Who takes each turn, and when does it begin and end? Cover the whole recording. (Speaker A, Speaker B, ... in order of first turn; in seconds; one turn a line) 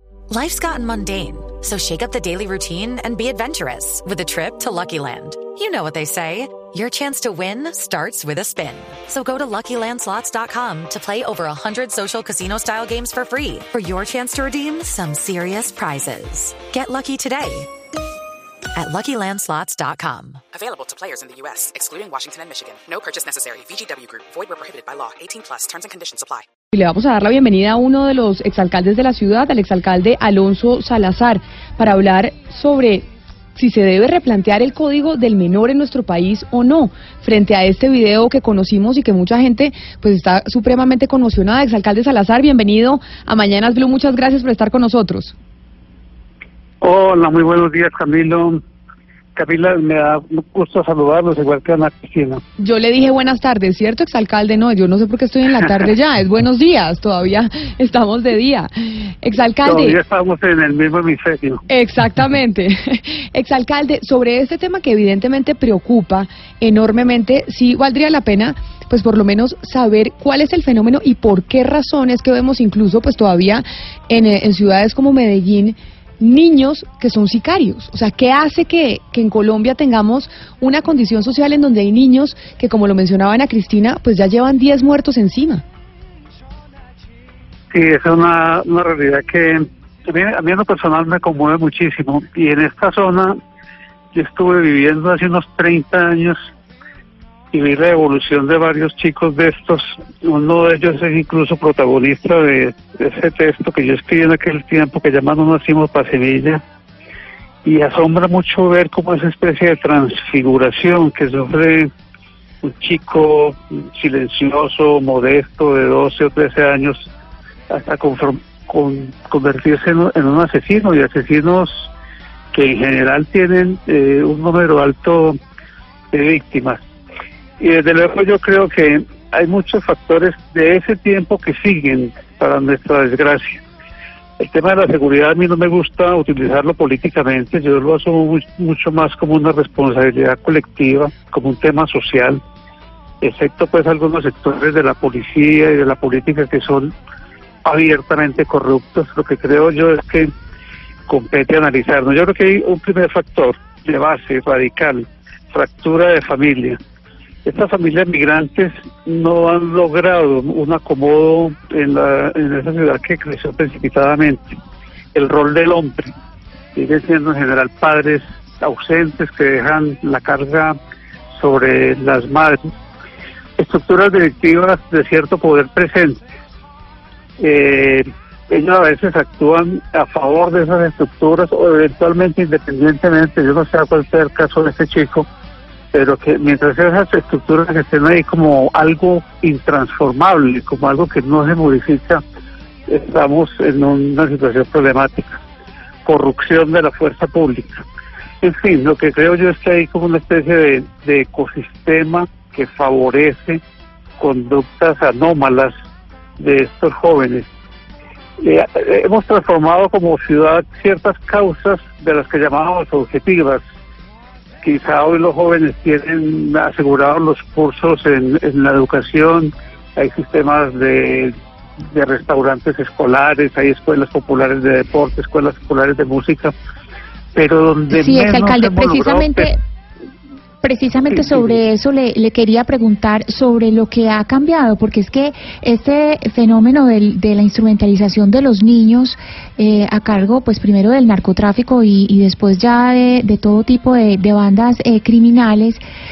Speaker A: 0.3-17.7
Speaker A: 18.7-20.4
Speaker B: 20.9-25.3
Speaker C: 26.7-45.4
Speaker D: 46.8-48.6
Speaker D: 49.4-52.4
Speaker C: 52.6-60.0
Speaker D: 59.6-61.6
Speaker C: 61.7-85.6
Speaker D: 87.7-93.4
Speaker D: 94.1-96.3
Speaker D: 97.5-106.6
Speaker D: 107.6-111.9
Speaker D: 112.6-117.1
Speaker D: 117.7-121.9
Speaker D: 122.5-125.4
Speaker D: 126.1-126.8
Speaker D: 127.6-133.6
Speaker D: 134.4-142.4
Speaker D: 143.2-146.9
Speaker D: 147.6-150.3
Speaker D: 151.1-156.8
Speaker D: 157.4-164.6
Speaker D: 165.1-166.1
Speaker D: 166.7-170.8
Speaker D: 171.3-172.7
Speaker D: 173.6-176.2
Speaker D: 177.4-185.3
Speaker D: 185.9-192.2
Speaker D: 192.9-195.4
Speaker D: 196.0-197.8
Speaker D: 198.4-203.6
Speaker D: 204.2-205.7
Speaker D: 206.4-207.5
Speaker D: 208.4-213.6
Speaker D: 214.6-221.3
Speaker D: 221.9-226.5
Speaker D: 227.3-229.5
Speaker E: 227.9-229.6
Speaker E: 230.6-245.8
Speaker D: 231.1-231.6